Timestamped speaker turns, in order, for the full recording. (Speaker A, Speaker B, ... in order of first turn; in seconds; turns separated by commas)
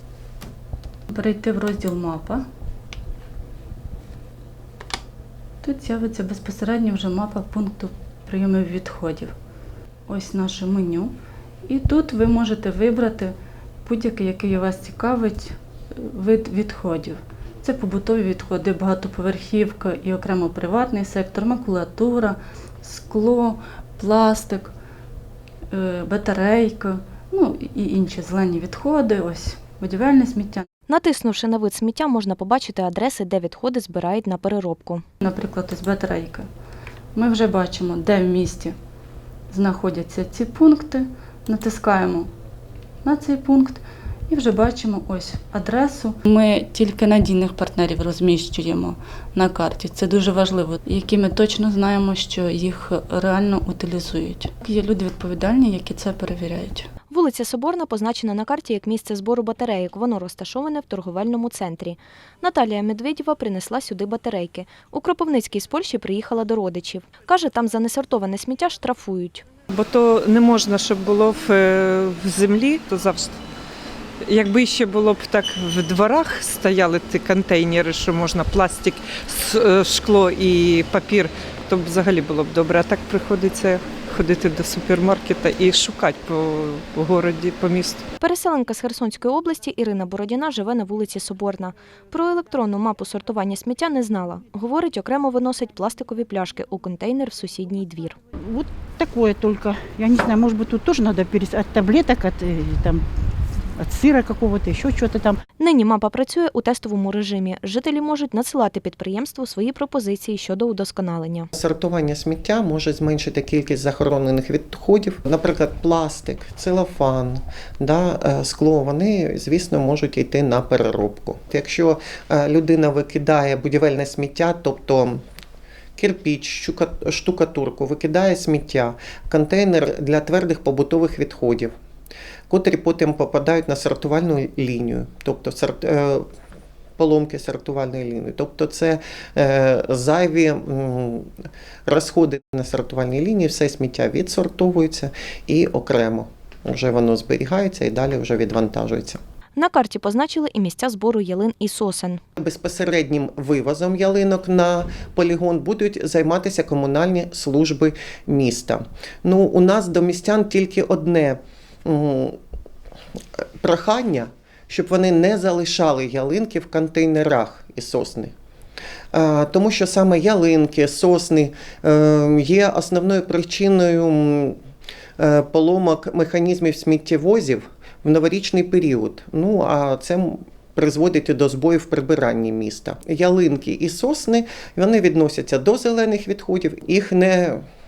Speaker A: 1.1-2.4, Speaker A: 5.6-9.3, Speaker A: 10.1-11.2, Speaker A: 11.7-24.7, Speaker A: 25.7-30.7, Speaker B: 30.9-35.0, Speaker A: 35.2-36.5, Speaker A: 37.2-38.8, Speaker A: 39.5-42.3, Speaker A: 43.0-56.9, Speaker B: 57.1-69.5, Speaker C: 69.7-73.4, Speaker C: 74.2-88.1, Speaker B: 88.2-98.2, Speaker D: 98.4-103.0, Speaker D: 103.8-105.4, Speaker B: 105.6-111.5, Speaker E: 111.5-125.2, Speaker E: 126.0-131.7, Speaker E: 132.5-136.2, Speaker E: 137.0-141.3, Speaker E: 141.9-149.2, Speaker B: 149.6-152.2, Speaker E: 152.4-162.4, Speaker E: 163.6-168.3, Speaker E: 169.1-174.6, Speaker E: 175.2-187.6